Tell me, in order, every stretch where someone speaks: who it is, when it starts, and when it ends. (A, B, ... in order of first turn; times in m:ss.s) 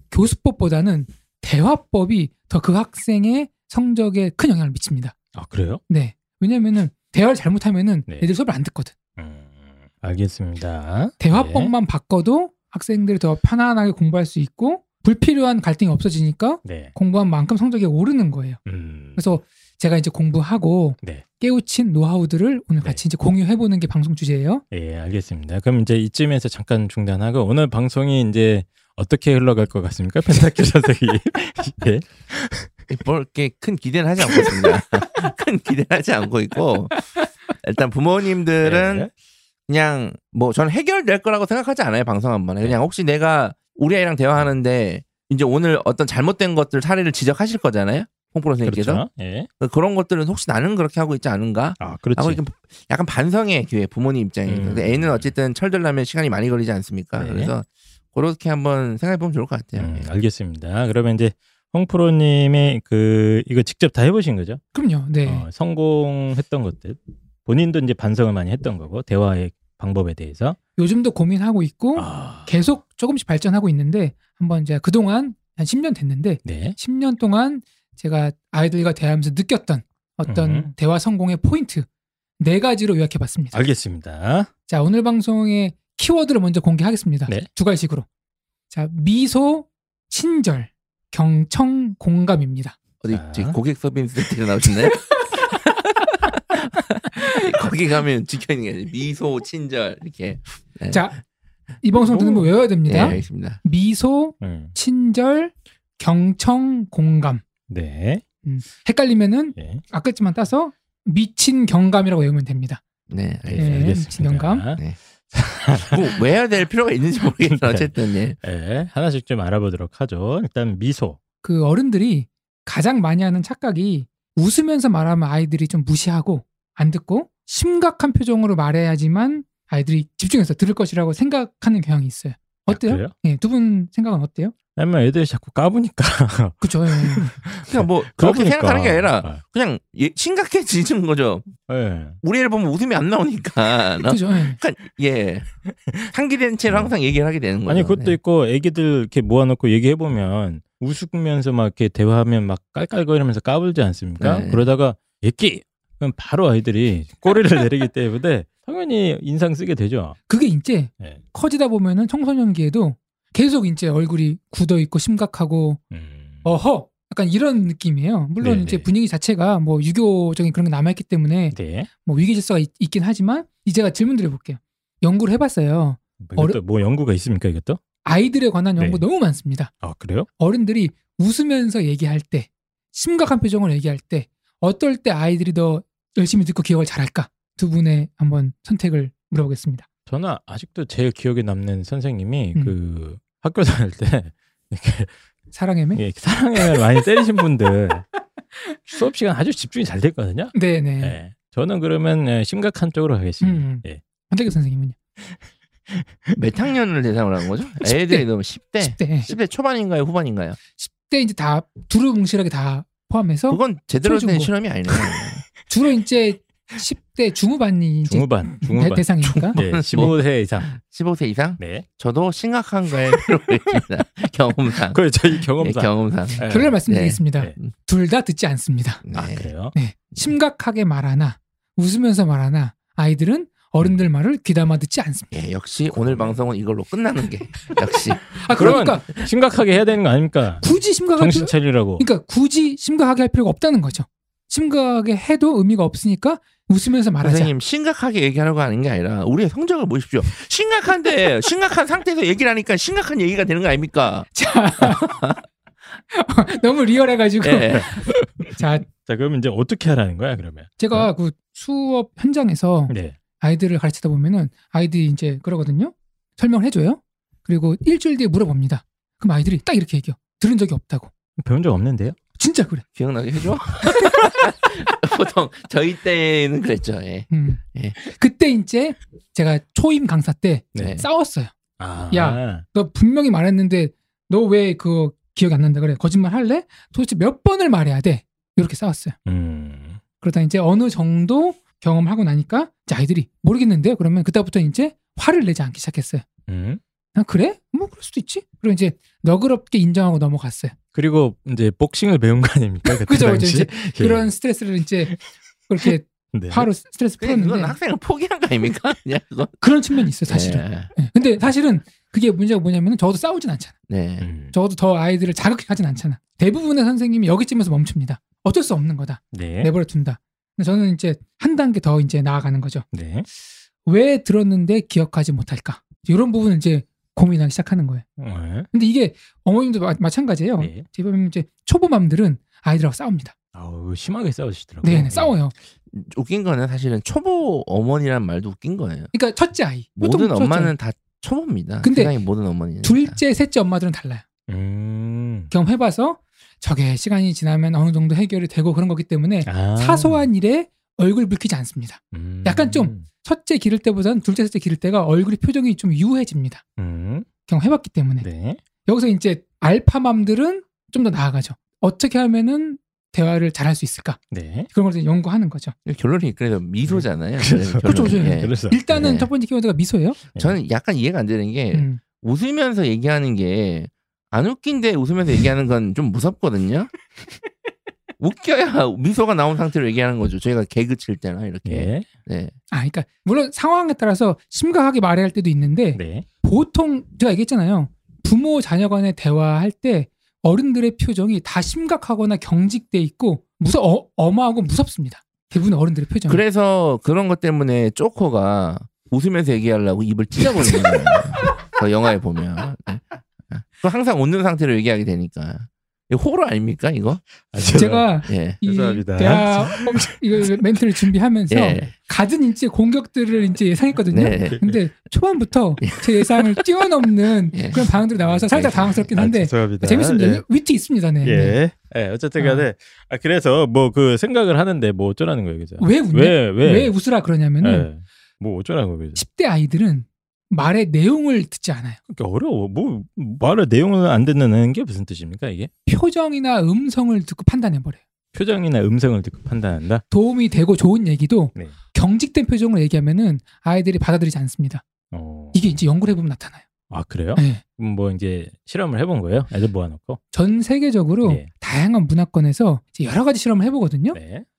0:00.1-0:05.2 A
0:05.4-0:05.8 B
0:05.9-0:09.0 A
0:09.2-0:11.7 B
0:11.2-0:18.6 A
0:16.6-0:16.9 B
0:18.7-0:19.4 B
0:19.2-0:24.6 A
0:24.7-0:32.7 B
0:32.9-0:39.1 C
0:38.6-0:39.1 B
0:39.7-0:49.0 C
0:48.6-0:49.5 B
0:49.6-1:00.1 C
0:51.8-0:52.4 B
0:54.5-0:55.3 B
0:57.2-0:57.5 B
0:59.8-1:04.6 B
1:04.7-1:05.5 A
1:05.2-1:10.6 B
1:10.8-1:21.9 A
1:12.0-1:12.6 B
1:16.4-1:16.8 B
1:20.3-1:20.7 B
1:22.4-1:23.7 A
1:23.5-1:24.5 B
1:24.7-1:28.1 A
1:28.7-1:32.8 A
1:33.0-1:41.1 C
1:33.1-1:33.6 B
1:40.9-1:41.2 A
1:41.8-1:47.4 A
1:42.0-1:43.2 B
1:42.8-1:43.6 C
1:44.4-1:44.8 B
1:47.7-1:48.2 B
1:48.4-1:52.8 A
1:49.6-1:49.8 B
1:53.1-1:53.9 C
1:53.5-1:56.0 B
1:53.5-1:54.7 A
1:55.9-1:58.4 C
1:57.5-2:01.2 B
2:01.4-2:14.6 A
2:12.7-2:13.1 B
2:14.8-2:19.4 B
2:16.6-2:17.4 A
2:17.7-2:21.5 C
2:21.7-2:22.2 B
2:22.2-2:25.5 C
2:24.0-2:24.6 A
2:25.7-2:26.1 B
2:26.1-2:28.2 C
2:27.7-2:40.2 B
2:34.2-2:34.7 C
2:40.3-2:45.8 A
2:45.9-2:46.5 B
2:46.4-2:56.6 A
2:48.4-2:48.9 B
2:51.5-2:51.9 B
2:56.2-2:57.8 B
2:58.0-2:59.7 A
2:58.8-2:59.0 B
2:59.8-3:00.3 B
3:00.4-3:09.9 A
3:10.1-3:15.1 B
3:15.5-3:16.0 A
3:16.0-3:18.0 B
3:18.9-3:24.0 B
3:20.5-3:21.2 A
3:23.4-3:25.0 A
3:25.9-3:26.4 B
3:26.4-3:30.6 C
3:27.8-3:28.2 A
3:28.8-3:29.3 A
3:30.8-3:34.5 A
3:33.5-3:35.4 C
3:35.7-3:39.6 A
3:38.0-3:40.7 B
3:39.2-3:47.7 C
3:41.6-3:41.9 B
3:44.9-3:46.8 B
3:46.5-3:49.0 A
3:49.0-3:49.5 C
3:49.1-3:49.8 B
3:49.7-3:55.3 A
3:55.3-3:59.3 C
3:56.0-3:56.3 B
3:58.3-3:59.1 A
3:58.6-4:00.6 B
4:00.6-4:07.5 A
4:01.2-4:02.0 B
4:07.2-4:15.4 C
4:14.4-4:15.1 A
4:16.1-4:18.0 A
4:17.4-4:18.0 C
4:17.7-4:21.1 B
4:18.6-4:18.9 A
4:20.8-4:31.1 A
4:22.9-4:23.2 B
4:31.4-4:32.2 B
4:32.4-4:32.8 A
4:33.0-4:38.0 C
4:37.3-4:41.5 A
4:40.8-4:41.1 C
4:41.8-4:42.6 B
4:42.1-4:49.2 A
4:49.3-4:50.0 B
4:50.2-4:56.2 A
4:56.5-4:56.8 B
4:57.2-5:00.7 A
5:00.9-5:04.3 B
5:02.9-5:05.2 A
5:05.7-5:07.8 A
5:05.8-5:06.7 B
5:07.2-5:09.7 C
5:09.6-5:13.8 A
5:10.2-5:10.9 C
5:13.9-5:14.3 C
5:14.2-5:14.5 B
5:14.5-5:22.9 A
5:19.3-5:19.7 B
5:22.9-5:23.3 B
5:23.9-5:28.0 A
5:28.2-5:28.7 B
5:28.7-5:33.3 A
5:30.6-5:30.8 B
5:33.6-5:35.4 B
5:34.8-5:35.5 A
5:35.9-5:39.1 C
5:39.1-5:40.7 A
5:40.0-5:43.2 C
5:41.8-5:42.2 A
5:42.8-5:44.2 A
5:44.5-5:45.5 B
5:45.5-5:56.6 A
5:49.4-5:50.3 B
5:52.1-5:53.1 B
5:56.8-5:57.3 B
5:57.5-5:58.3 A
5:58.2-5:58.6 B
5:58.8-6:04.2 A
6:04.3-6:04.7 B
6:04.7-6:05.8 A
6:05.9-6:09.3 C
6:06.8-6:08.8 B
6:07.8-6:10.2 A
6:10.4-6:16.9 C
6:11.7-6:12.0 A
6:18.2-6:22.5 C
6:21.6-6:22.1 B
6:22.7-6:36.4 A
6:26.0-6:26.3 B
6:36.3-6:48.6 C
6:47.5-6:50.2 B
6:47.7-7:01.6 A
6:51.5-6:51.9 C
6:54.1-6:54.6 C
6:54.5-6:54.8 B
6:55.8-6:56.4 C
6:57.5-6:57.8 C
6:58.2-6:58.5 B
6:58.5-6:59.2 C
6:59.2-7:00.4 B
7:01.2-7:06.9 B
7:02.4-7:02.7 A
7:05.8-7:07.9 A
7:07.6-7:09.2 B
7:09.2-7:12.0 A
7:12.1-7:15.7 B
7:15.9-7:18.0 A
7:18.3-7:20.0 B
7:20.1-7:24.8 A
7:25.1-7:25.7 B
7:25.5-7:26.6 A
7:26.9-7:30.2 B
7:27.4-7:27.6 A
7:30.3-7:34.2 A
7:34.1-7:34.4 B